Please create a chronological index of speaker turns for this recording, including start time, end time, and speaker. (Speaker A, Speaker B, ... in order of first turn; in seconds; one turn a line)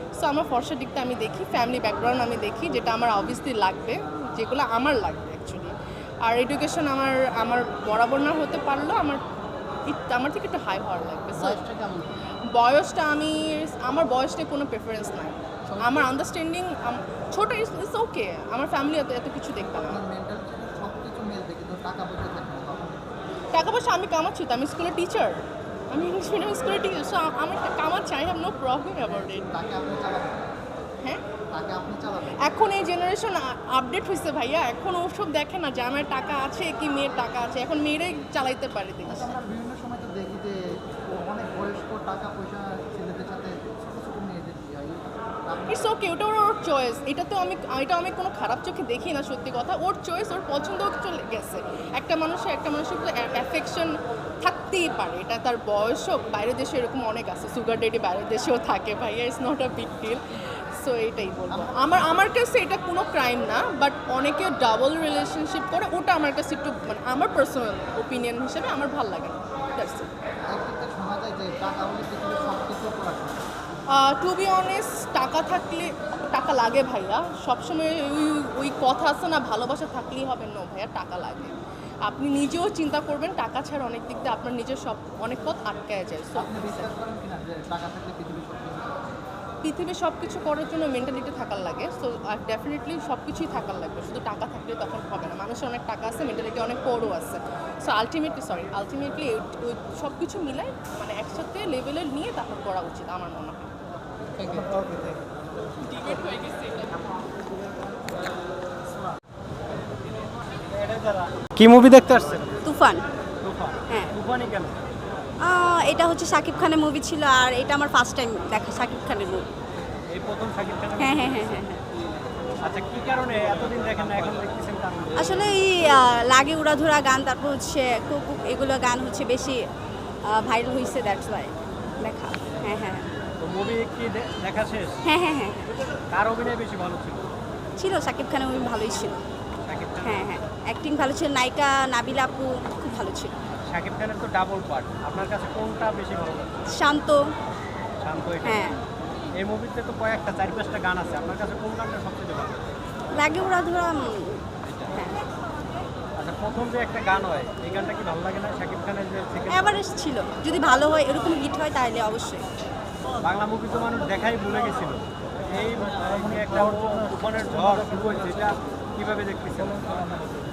Speaker A: 0.1-9.2
Speaker A: 9.9-11.6
Speaker B: 11.3-12.1
Speaker A: 12.5-20.0
Speaker B: 15.7-16.1
Speaker B: 19.9-23.0
Speaker A: 23.5-25.4
Speaker A: 25.9-29.5
Speaker B: 29.0-30.5
Speaker B: 31.5-32.6
Speaker A: 32.4-39.3
Speaker B: 39.1-45.8
Speaker A: 45.7-60.2
Speaker A: 60.7-70.1
Speaker B: 61.5-62.2
Speaker B: 70.5-73.5
Speaker A: 73.9-86.9
Speaker B: 86.3-89.2
Speaker A: 89.6-103.8
Speaker B: 104.4-104.9
Speaker C: 104.5-105.1
Speaker A: 105.8-106.9
Speaker C: 110.7-112.6
Speaker D: 112.6-113.0
Speaker C: 113.4-114.8
Speaker D: 113.9-114.1
Speaker D: 115.4-119.5
Speaker C: 120.1-121.8
Speaker D: 121.0-121.8
Speaker C: 122.6-125.5
Speaker D: 125.2-129.6
Speaker D: 130.3-133.1
Speaker C: 133.4-135.0
Speaker D: 135.0-135.8
Speaker C: 136.1-137.3
Speaker D: 137.8-139.2
Speaker C: 139.7-140.4
Speaker D: 140.0-143.3
Speaker C: 143.5-146.6
Speaker D: 146.7-147.2
Speaker C: 148.0-148.7
Speaker D: 148.4-148.8
Speaker C: 149.3-152.7
Speaker D: 153.1-155.2
Speaker C: 156.2-159.8
Speaker D: 159.5-162.4
Speaker C: 163.2-170.0